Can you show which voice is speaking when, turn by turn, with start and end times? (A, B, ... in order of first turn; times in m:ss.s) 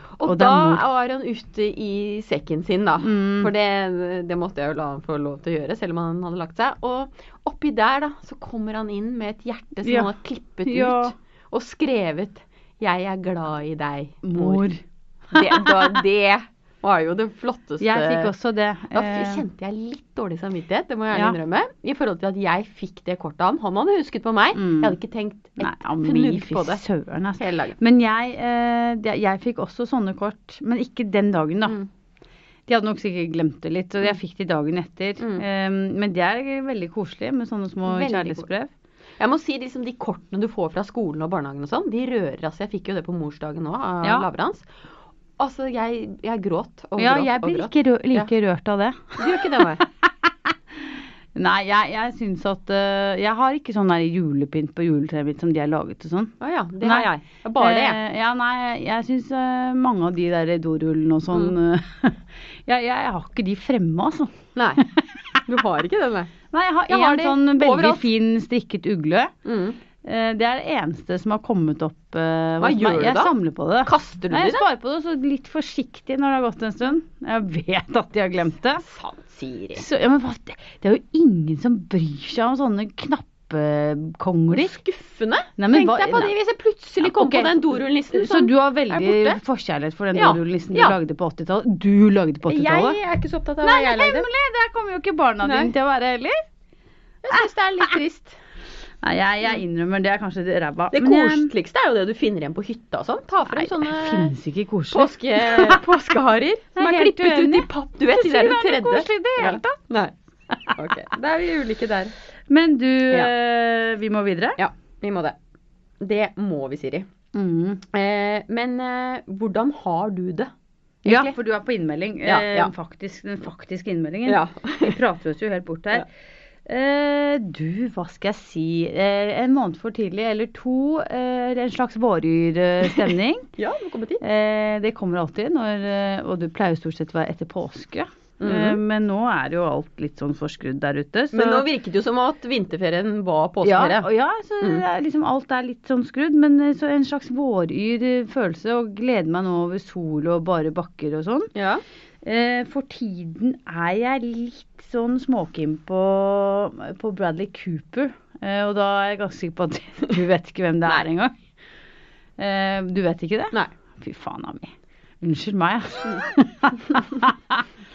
0:00.2-0:14.7 A
0:00.2-0:00.8 B
0:03.0-0:03.5 B
0:09.8-0:10.1 B
0:10.6-0:11.1 B
0:14.2-0:14.8 B
0:15.3-0:18.3 A
0:15.3-0:16.0 B
0:17.8-0:19.4 B
0:18.9-0:26.8 A
0:24.5-0:25.0 B
0:25.6-0:31.8 B
0:27.4-0:27.8 A
0:32.7-0:38.7 B
0:35.2-0:35.4 A
0:37.8-0:38.5 A
0:39.2-0:44.7 A
0:45.4-0:48.3 A
0:47.0-1:05.4 B
0:49.2-0:49.8 A
0:56.4-0:58.0 A
1:04.6-1:04.9 A
1:05.4-1:06.3 A
1:06.5-1:09.3 B
1:06.9-1:08.1 A
1:09.4-1:09.8 A
1:10.0-1:18.8 B
1:12.6-1:14.6 A
1:18.8-1:19.8 A
1:19.8-1:24.7 B
1:24.5-1:29.4 A
1:25.6-1:26.3 B
1:27.0-1:33.0 B
1:30.1-1:31.0 A
1:32.5-1:34.3 A
1:33.6-1:36.4 B
1:35.4-1:35.7 A
1:37.2-1:38.4 A
1:39.0-1:41.5 B
1:40.9-1:44.3 A
1:43.5-1:45.8 B
1:44.9-1:50.1 A
1:46.8-1:49.8 B
1:50.5-1:50.8 B
1:50.7-1:52.1 A
1:52.5-1:54.6 B
1:54.6-1:55.4 A
1:56.0-1:57.1 A
1:57.3-1:57.8 B
1:57.9-2:00.5 A
2:01.0-2:01.4 A
2:01.0-2:06.1 B
2:02.2-2:02.7 A
2:04.2-2:05.0 A
2:06.6-2:13.5 B
2:12.9-2:14.2 A
2:14.2-2:21.7 B
2:18.4-2:18.8 A
2:21.3-2:24.1 A
2:23.6-2:31.5 B
2:31.5-2:31.8 A
2:32.2-2:41.4 B
2:42.4-2:47.7 B